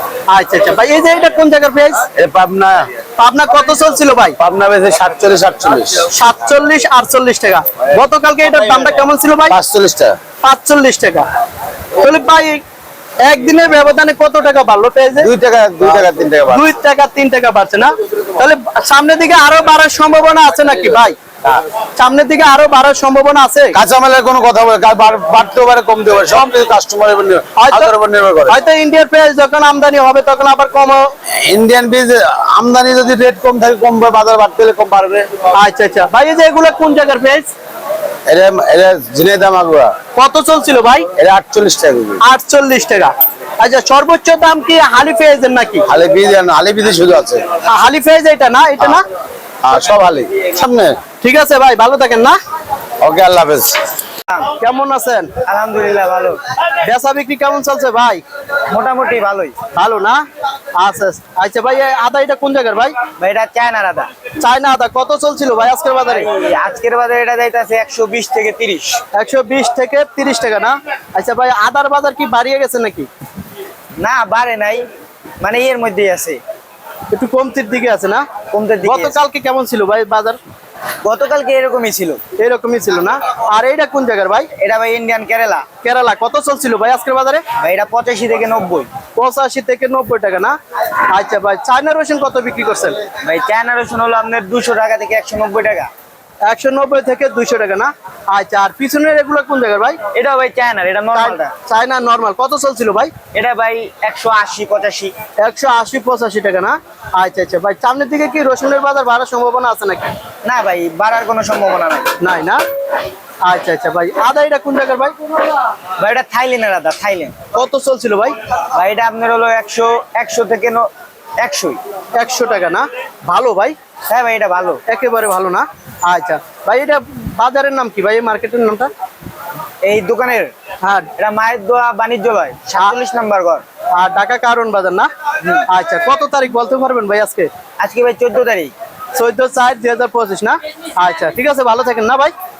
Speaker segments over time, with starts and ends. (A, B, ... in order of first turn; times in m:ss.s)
0:00.3-0:02.0 A
0:02.1-0:02.9 B
0:03.2-0:04.4 A
0:04.4-0:06.1 B
0:06.1-0:09.6 A
0:09.5-0:10.2 B
0:10.4-0:11.3 A
0:12.0-0:12.6 A
0:13.2-0:15.3 A
0:15.2-0:16.7 B
0:16.5-0:21.2 A
0:22.0-0:23.7 A
0:23.7-0:28.6 B
0:27.6-0:27.9 A
0:28.5-0:31.1 A
0:31.3-0:35.4 B
0:35.5-0:37.5 A
0:38.3-0:39.9 B
0:40.2-0:41.1 A
0:41.2-0:42.2 B
0:42.2-0:45.8 A
0:45.9-0:47.4 B
0:47.6-0:49.0 A
0:49.6-0:51.0 B
0:51.2-0:52.4 A
0:53.0-0:53.8 B
0:54.6-0:55.3 A
0:55.4-0:56.4 C
0:56.8-0:58.2 A
0:58.7-0:59.6 C
0:59.7-1:00.2 A
1:00.8-1:02.9 A
1:03.2-1:04.1 C
1:04.4-1:06.3 A
1:06.0-1:09.0 C
1:09.1-1:13.1 A
1:14.0-1:14.9 C
1:15.4-1:16.4 C
1:17.1-1:18.2 A
1:18.5-1:19.1 C
1:18.8-1:20.4 A
1:21.0-1:22.2 C
1:22.4-1:24.5 A
1:24.6-1:25.6 C
1:25.8-1:27.4 A
1:27.6-1:28.9 C
1:29.2-1:30.5 A
1:31.1-1:33.0 A
1:33.2-1:35.9 C
1:36.4-1:40.0 A
1:40.1-1:41.5 C
1:41.1-1:43.1 A
1:43.3-1:45.1 C
1:45.4-1:50.1 A
1:50.4-1:52.1 C
1:52.2-1:52.6 A
1:53.4-1:55.1 A
1:56.0-1:57.4 C
1:57.5-1:58.3 A
1:58.7-2:00.9 C
2:01.4-2:01.8 C
2:02.2-2:03.7 A
2:04.1-2:04.8 C
2:04.9-2:08.9 A
2:09.8-2:10.5 C
2:10.8-2:11.1 A
2:11.2-2:13.6 C
2:13.9-2:15.1 A
2:15.7-2:17.5 A
2:17.8-2:18.7 C
2:19.1-2:22.3 A